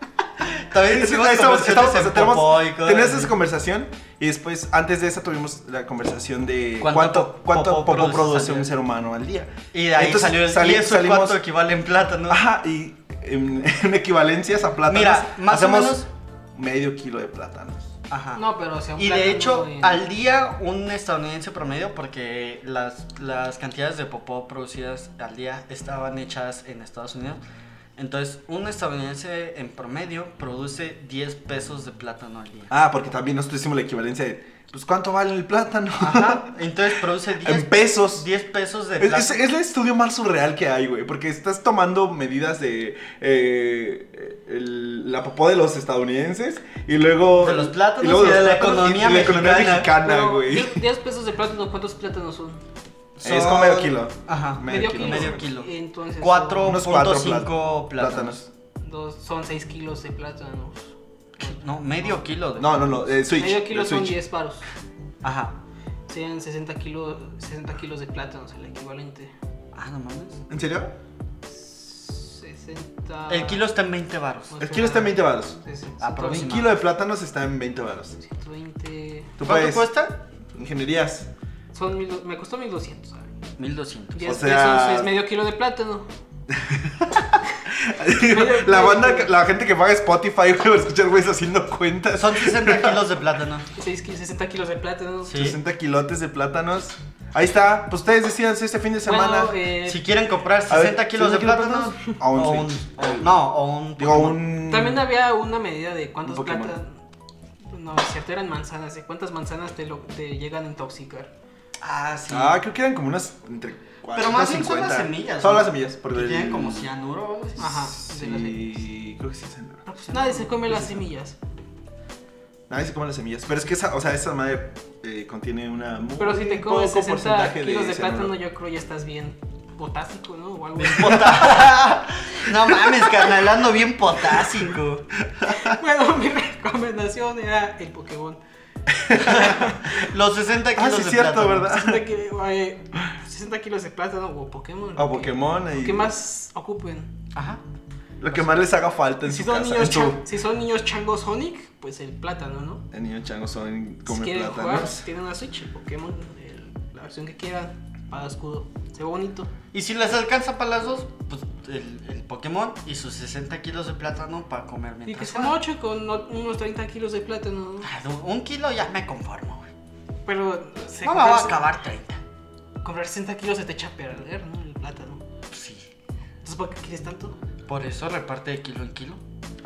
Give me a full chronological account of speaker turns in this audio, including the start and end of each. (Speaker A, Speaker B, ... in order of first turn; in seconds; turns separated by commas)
Speaker A: 0.4-3.3, Speaker B: 0.8-11.4, Speaker A: 6.8-8.7, Speaker A: 9.7-12.4, Speaker B: 12.3-17.9, Speaker A: 14.9-16.1, Speaker A: 18.1-18.4, Speaker C: 18.4-20.0, Speaker A: 18.9-27.4, Speaker A: 28.0-32.7, Speaker B: 32.7-36.5, Speaker A: 36.0-39.5, Speaker B: 37.4-38.2, Speaker B: 39.0-50.9, Speaker A: 47.4-50.0, Speaker C: 49.9-52.6, Speaker A: 53.2-58.4, Speaker B: 53.2-55.5, Speaker C: 54.7-56.8, Speaker B: 56.6-58.5, Speaker C: 58.8-61.5, Speaker A: 61.4-63.0, Speaker B: 62.6-64.2, Speaker C: 63.4-64.7, Speaker A: 65.2-65.5, Speaker C: 66.1-69.3, Speaker A: 69.7-70.4, Speaker B: 70.5-70.9, Speaker C: 71.5-73.6, Speaker A: 73.3-74.6, Speaker C: 74.5-76.6, Speaker B: 74.6-75.6, Speaker A: 76.0-76.8, Speaker B: 76.2-78.2, Speaker C: 78.2-79.3, Speaker B: 79.4-81.3, Speaker A: 79.4-80.2, Speaker C: 81.7-83.3, Speaker A: 83.6-84.5, Speaker C: 84.1-86.1, Speaker B: 84.2-85.1, Speaker B: 86.5-93.0, Speaker C: 88.2-89.3, Speaker A: 92.1-93.7, Speaker C: 93.8-95.4, Speaker A: 95.2-95.6, Speaker B: 95.3-99.5, Speaker C: 99.0-100.1, Speaker A: 99.8-104.4, Speaker B: 100.7-103.3, Speaker B: 104.0-105.0, Speaker C: 104.7-107.0, Speaker B: 106.2-106.8, Speaker C: 107.7-111.3, Speaker A: 111.8-112.6, Speaker B: 112.3-116.9, Speaker A: 114.1-117.9, Speaker C: 117.6-118.8, Speaker B: 117.6-119.9, Speaker C: 119.9-121.4, Speaker A: 120.1-121.0, Speaker B: 122.7-128.3, Speaker C: 126.2-131.7, Speaker A: 130.8-135.2, Speaker C: 135.5-138.4, Speaker B: 138.9-139.9, Speaker A: 139.1-141.7, Speaker B: 140.7-142.0, Speaker C: 141.7-147.1, Speaker B: 144.9-146.1, Speaker A: 147.3-147.6, Speaker B: 148.2-150.2, Speaker C: 148.3-148.7, Speaker C: 149.2-152.8, Speaker B: 152.9-155.1, Speaker C: 154.1-159.5, Speaker A: 159.7-165.6, Speaker C: 165.1-167.9, Speaker A: 167.8-169.7, Speaker C: 170.2-171.6, Speaker A: 171.0-172.2, Speaker C: 172.8-175.2, Speaker A: 175.5-175.9, Speaker C: 176.4-177.3, Speaker A: 177.7-179.2